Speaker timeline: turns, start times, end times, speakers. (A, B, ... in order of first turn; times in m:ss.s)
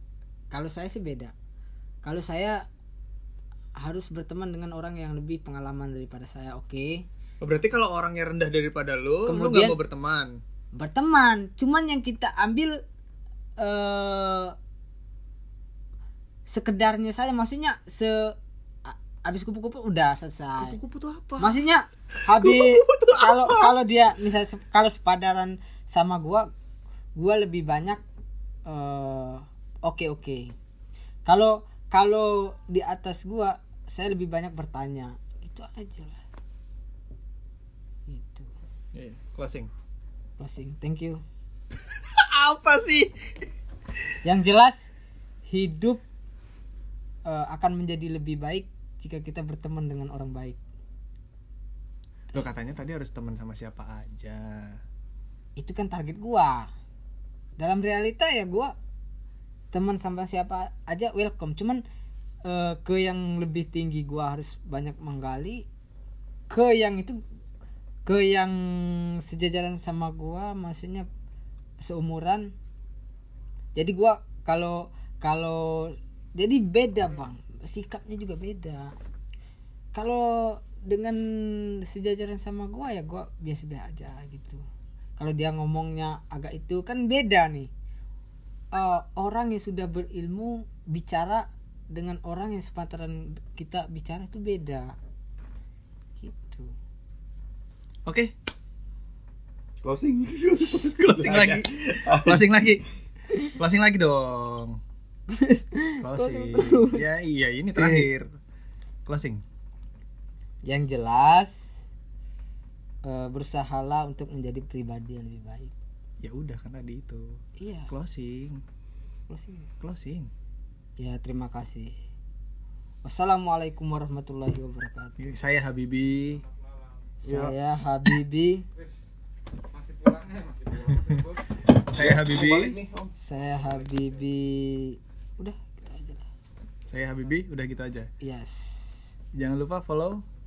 0:00.5-0:01.3 A
0:02.0-0:02.7 A
0:03.8-0:07.0 A
0:07.4-0:10.4 B
0:09.3-0:09.8 A
0:10.7-0:12.8 A
0:13.6-0:14.5 A
0:16.5-0:20.8 A
0:20.6-0:21.6 B
0:21.4-0:26.5 A
0:22.2-0:23.7 B
0:27.2-0:28.0 A
0:28.6-0:30.5 A
0:31.2-0:36.2 A
0:38.1-0:38.5 A
0:38.9-0:39.7 B
0:40.4-0:41.2 A
0:42.0-0:43.1 B
0:44.2-0:44.9 A
0:45.5-0:46.0 A
0:47.2-0:50.6 A
0:52.3-0:54.8 B
0:55.6-0:56.7 A
0:57.6-0:58.7 A
0:59.7-1:01.8 A
1:02.4-1:05.6 A
1:06.5-1:07.2 A
1:08.0-1:11.1 A
1:11.8-1:12.5 A
1:13.8-1:18.9 A
1:19.9-1:24.6 A
1:25.2-1:27.7 A
1:28.7-1:34.9 A
1:36.2-1:36.7 A
1:38.0-1:38.3 B
1:39.8-1:42.4 C
1:40.6-1:42.8 B
1:43.4-1:44.8 B
1:45.3-1:47.1 A
1:46.0-1:48.3 B
1:47.8-1:48.1 C
1:49.1-1:49.4 B
1:50.6-1:51.8 A
1:53.0-1:55.7 A
1:56.2-1:58.6 B
1:57.6-1:57.9 A
1:59.3-1:59.7 A
1:59.8-2:00.3 B
2:01.0-2:01.9 A
2:03.0-2:05.2 A
2:05.2-2:06.4 B
2:07.2-2:08.6 A
2:07.2-2:07.5 C
2:10.0-2:12.8 B
2:11.9-2:13.1 C
2:13.2-2:16.3 A
2:16.9-2:18.1 B
2:18.2-2:19.1 A
2:19.3-2:20.2 B